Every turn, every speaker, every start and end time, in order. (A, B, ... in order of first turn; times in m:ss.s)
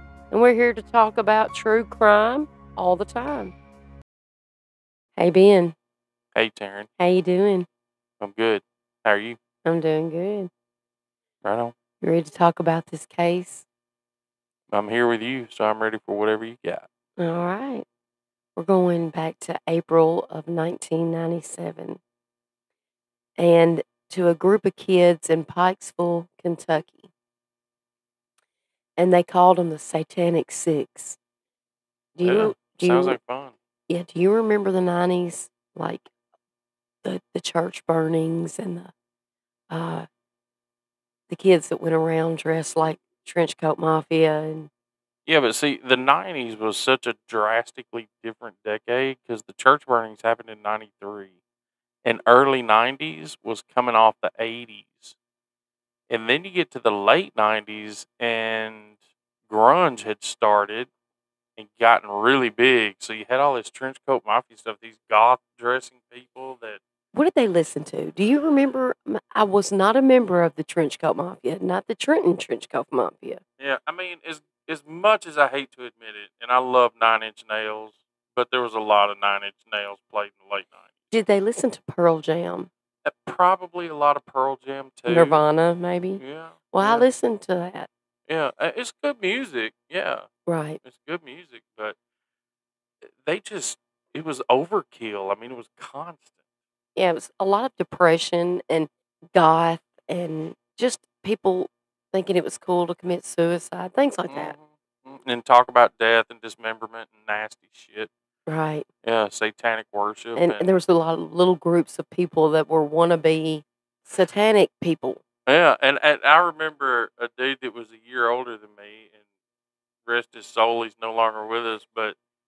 0:00.3-0:03.6 A
0:05.2-0:05.8 A
0:06.4-0:06.9 B
0:07.0-0:07.7 A
0:08.2-0:09.4 B
0:09.6-0:10.5 A
0:11.4-0:11.7 B
0:12.0-0:13.7 A
0:14.7-0:16.9 B
0:17.2-0:17.9 A
0:18.6-0:22.0 A
0:23.4-0:27.1 A
0:29.0-0:31.2 A
0:32.2-0:33.2 A
0:32.2-0:33.6 B
0:33.9-0:36.1 A
0:37.0-0:38.9 A
0:39.7-0:40.1 A
0:41.3-0:44.7 A
0:45.3-0:51.3 B
0:52.0-0:55.2 B
0:56.1-0:58.9 B
0:59.5-1:00.9 B
1:01.6-1:06.8 B
1:07.1-1:13.4 A
1:13.6-1:20.9 B
1:21.1-1:22.7 A
1:23.0-1:25.4 B
1:25.1-1:27.9 A
1:26.2-1:27.1 B
1:28.3-1:30.3 B
1:30.5-1:30.8 A
1:30.8-1:32.0 B
1:33.0-1:36.3 B
1:37.0-1:44.5 A
1:44.3-1:48.1 B
1:48.5-1:48.9 A
1:49.0-1:50.7 B
1:50.4-1:55.2 A
1:55.5-1:59.2 B
2:00.1-2:02.2 B